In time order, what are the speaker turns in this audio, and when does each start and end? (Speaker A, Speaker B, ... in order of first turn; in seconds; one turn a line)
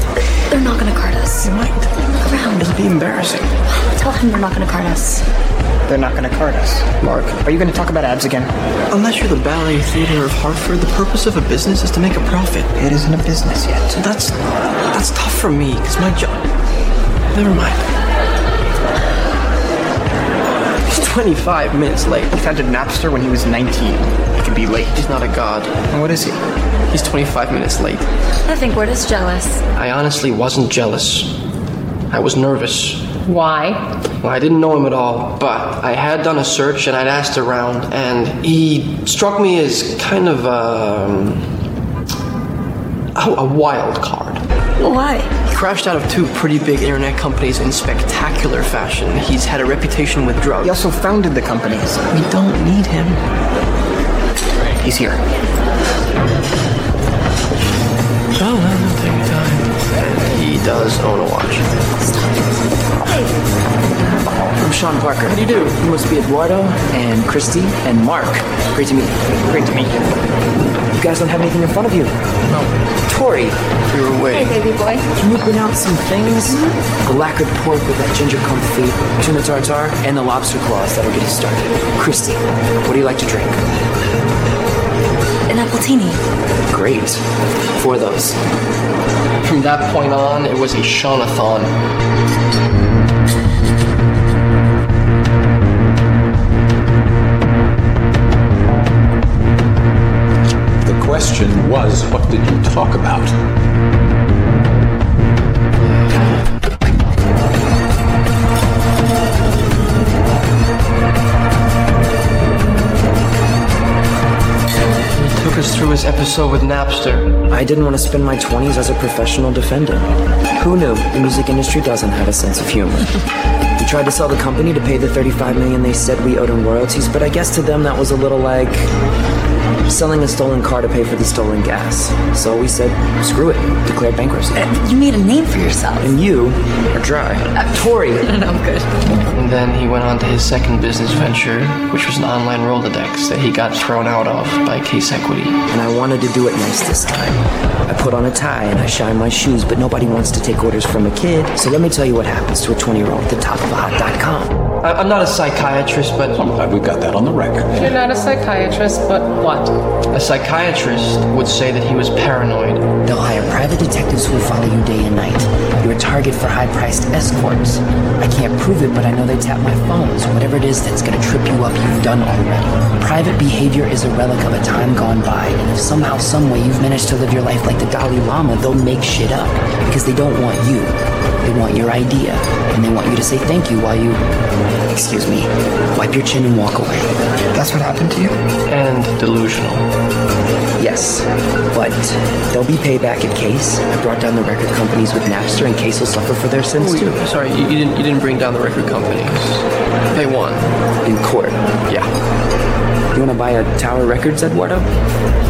Speaker A: 0.5-1.5
Speaker B: 1.4-2.0
Speaker A: 2.0-2.7
Speaker B: 2.6-3.5
Speaker A: 3.7-5.2
Speaker C: 5.9-6.9
Speaker B: 7.0-7.4
Speaker C: 7.4-8.5
Speaker B: 8.9-12.7
Speaker C: 12.8-14.0
Speaker B: 13.9-16.5
Speaker B: 17.3-17.8
Speaker B: 20.9-22.3
Speaker C: 22.3-24.9
Speaker B: 24.9-25.8
Speaker C: 25.9-26.4
Speaker B: 26.9-28.0
Speaker A: 28.5-29.6
Speaker B: 29.8-31.4
Speaker B: 32.1-33.2
Speaker D: 33.3-33.8
Speaker B: 34.2-41.4
Speaker B: 43.1-44.4
Speaker A: 44.8-45.3
Speaker B: 45.5-50.8
Speaker C: 50.6-52.0
Speaker B: 52.1-53.2
Speaker C: 54.8-55.2
Speaker B: 58.4-61.7
Speaker E: 64.4-69.9
Speaker B: 65.3-65.7
Speaker E: 71.0-72.1
Speaker E: 73.1-73.6
Speaker B: 73.9-74.6
Speaker A: 74.3-75.1
Speaker E: 75.1-83.6
Speaker A: 85.5-86.2
Speaker E: 86.7-87.2
Speaker E: 87.8-88.4
Speaker B: 89.4-91.7
Speaker F: 100.8-103.3
Speaker B: 115.2-117.4
Speaker E: 117.5-123.2
Speaker E: 123.8-128.9
Speaker E: 129.9-134.7
Speaker A: 134.6-136.2
Speaker E: 136.0-138.3
Speaker A: 137.7-139.1
Speaker B: 139.3-145.6
Speaker E: 145.7-154.6
Speaker B: 154.8-156.6
Speaker F: 156.4-157.9
Speaker D: 157.8-159.7
Speaker B: 160.1-162.8
Speaker E: 163.0-184.2
Speaker E: 184.9-187.1
Speaker C: 187.5-188.4
Speaker B: 188.7-189.9
Speaker E: 190.8-197.2
Speaker B: 196.8-200.8
Speaker E: 201.0-201.6
Speaker E: 203.1-204.9